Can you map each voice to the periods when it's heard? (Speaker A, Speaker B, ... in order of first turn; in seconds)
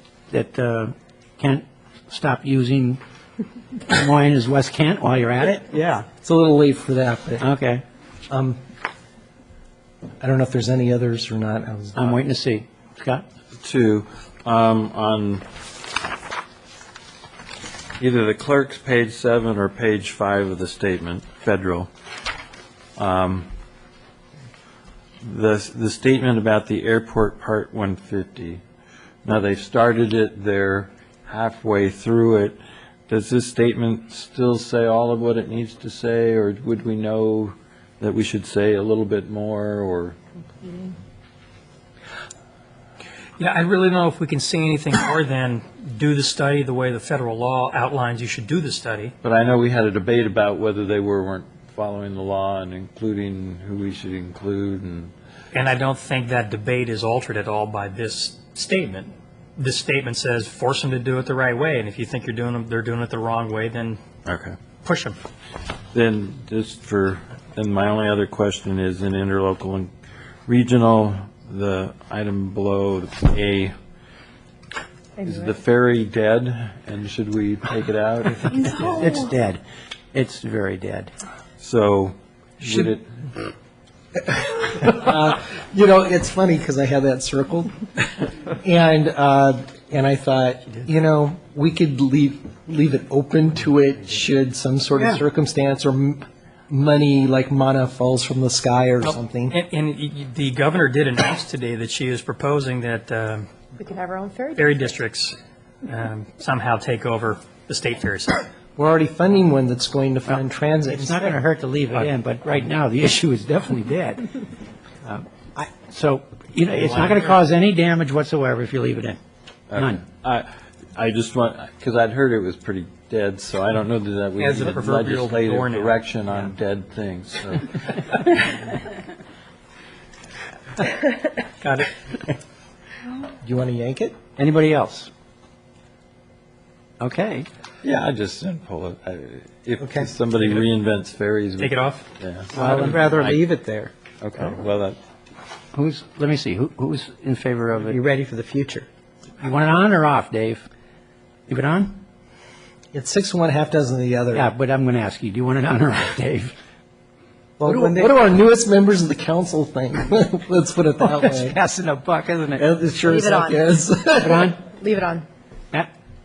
Speaker A: 0.3-3.0, 3.9-5.6, 7.4-7.8, 11.9-13.2, 78.9-79.6, 80.1-81.1, 110.3-114.4, 115.0-119.2, 119.8-120.0, 134.4-135.1, 137.0-137.5, 142.6-142.9, 145.7-148.0, 149.4-150.6, 151.5-152.0, 154.3-156.5, 161.0-162.7, 164.2-164.6
Speaker B: 5.4-6.0, 142.5-143.9, 147.8-148.9, 157.6-158.1
Speaker C: 6.2-7.5, 8.3-8.6, 10.2-12.2, 84.2-88.1, 88.6-99.6, 108.7-111.4, 133.4-134.2, 139.8-140.1, 152.9-154.5, 157.6-161.6, 162.6-164.6
Speaker D: 13.6-15.4, 18.0-21.9, 23.0-23.5, 25.2-28.6, 29.2-40.2, 49.2-55.1, 64.2-64.5, 65.9-69.9, 70.5-73.7, 75.2-79.0, 81.6-83.0, 119.7-128.2, 137.8-143.4, 144.2-145.0
Speaker E: 43.4-49.1, 55.5-64.0, 64.8-65.2, 99.5-103.5, 104.5-105.3, 105.9-108.5, 116.8-117.4, 124.4-126.0, 131.6-131.9, 141.6-142.0
Speaker F: 75.2-75.5, 103.8-104.8, 163.1-163.6, 164.7-165.3